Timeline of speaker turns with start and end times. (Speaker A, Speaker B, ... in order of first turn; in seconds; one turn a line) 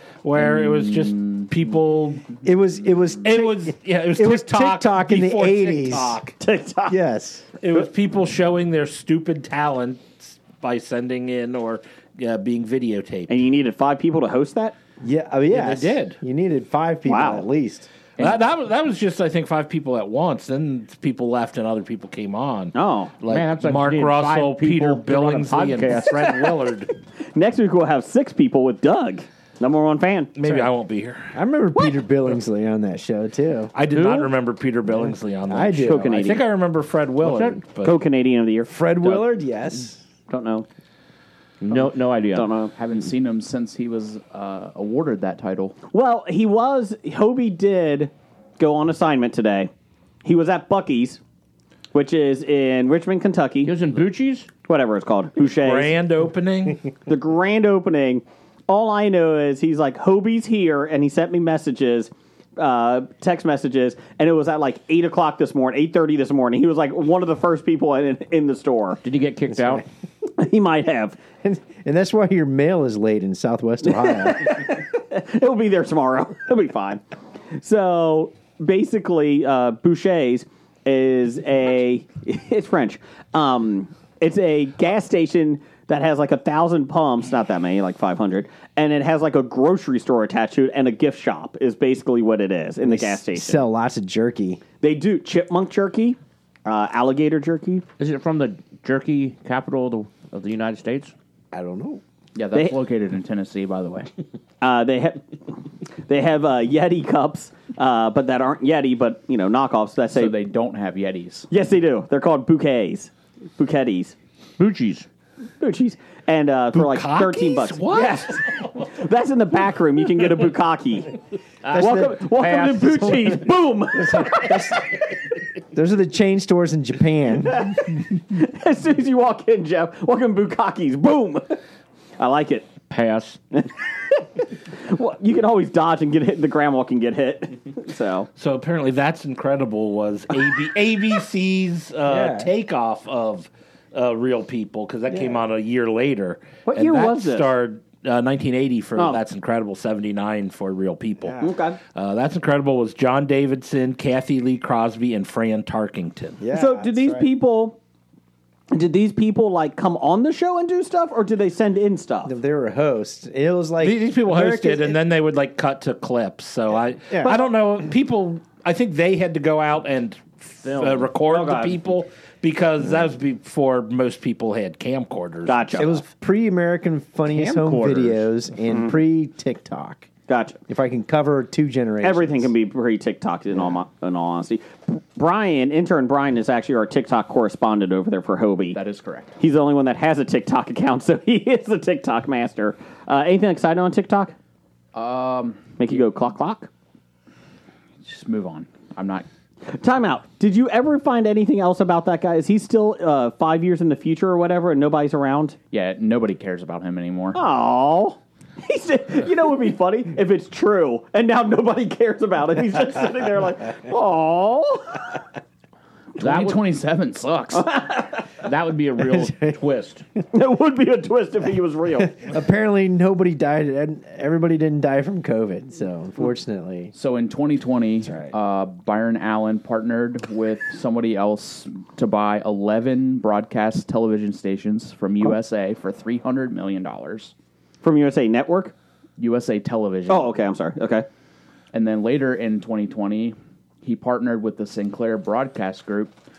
Speaker A: 0.2-2.3
Speaker B: 0.3-1.8
Speaker C: 2.4-6.2
Speaker A: 3.2-6.3
Speaker D: 6.4-7.0
Speaker C: 6.9-7.5
Speaker A: 7.6-13.4
Speaker D: 13.3-14.8
Speaker C: 15.0-17.9
Speaker A: 15.5-16.2
Speaker D: 17.1-17.5
Speaker A: 18.2-26.9
Speaker D: 22.7-23.1
Speaker E: 23.3-26.5
Speaker D: 27.3-30.3
Speaker A: 30.4-31.3
Speaker C: 30.4-30.7
Speaker C: 31.3-33.7
Speaker A: 33.8-38.0
Speaker E: 33.9-34.3
Speaker C: 34.9-36.1
Speaker D: 35.9-36.4
Speaker E: 37.2-37.6
Speaker D: 37.8-39.2
Speaker C: 38.7-40.0
Speaker D: 40.3-40.7
Speaker E: 41.6-42.5
Speaker D: 41.7-42.7
Speaker B: 42.7-45.8
Speaker D: 45.9-49.7
Speaker D: 50.2-51.2
Speaker D: 51.9-53.7
Speaker E: 53.6-54.5
Speaker D: 54.7-56.0
Speaker A: 55.5-56.8
Speaker D: 57.1-69.0
Speaker E: 69.0-69.8
Speaker C: 69.5-69.8
Speaker D: 70.4-71.2
Speaker C: 71.4-74.4
Speaker D: 73.9-77.0
Speaker D: 77.6-93.7
Speaker C: 92.8-94.6
Speaker D: 94.8-97.8
Speaker E: 98.0-101.1
Speaker C: 101.5-102.0
Speaker B: 102.3-104.1
Speaker D: 102.5-102.8
Speaker D: 104.6-110.4
Speaker B: 110.1-111.5
Speaker D: 111.5-114.2
Speaker E: 114.6-115.1
Speaker D: 115.6-121.2
Speaker A: 116.7-118.9
Speaker E: 121.6-123.5
Speaker C: 121.7-122.2
Speaker D: 121.7-124.8
Speaker C: 124.1-124.8
Speaker C: 125.7-127.8
Speaker D: 127.5-131.6
Speaker D: 132.2-132.7
Speaker E: 132.9-133.4
Speaker D: 133.5-138.3
Speaker A: 138.4-151.4
Speaker C: 142.1-142.5
Speaker C: 145.1-145.4
Speaker D: 146.7-147.5
Speaker D: 149.0-149.2
Speaker D: 151.4-151.8
Speaker A: 151.9-156.4
Speaker C: 156.4-157.3
Speaker D: 156.5-157.8
Speaker D: 158.7-162.3
Speaker C: 162.2-165.0
Speaker A: 163.8-175.7
Speaker C: 167.0-167.4
Speaker E: 170.6-171.1
Speaker D: 171.2-171.8
Speaker D: 175.5-176.0
Speaker C: 175.8-180.1
Speaker E: 177.3-178.3
Speaker D: 178.7-178.9
Speaker D: 180.3-180.6
Speaker C: 180.7-182.5
Speaker D: 182.0-188.8
Speaker B: 188.7-189.3
Speaker D: 189.4-194.3
Speaker B: 194.9-195.6
Speaker D: 195.8-196.7
Speaker B: 198.0-199.3
Speaker D: 199.7-205.6
Speaker B: 205.7-207.4
Speaker D: 207.3-215.1
Speaker E: 216.2-216.7
Speaker B: 216.2-217.8
Speaker D: 217.5-218.2
Speaker E: 218.4-220.0
Speaker D: 220.3-222.2
Speaker C: 222.0-226.9
Speaker B: 226.9-237.3
Speaker C: 228.0-228.3
Speaker D: 237.8-238.7
Speaker B: 239.2-240.3
Speaker D: 240.1-241.1
Speaker B: 241.7-246.1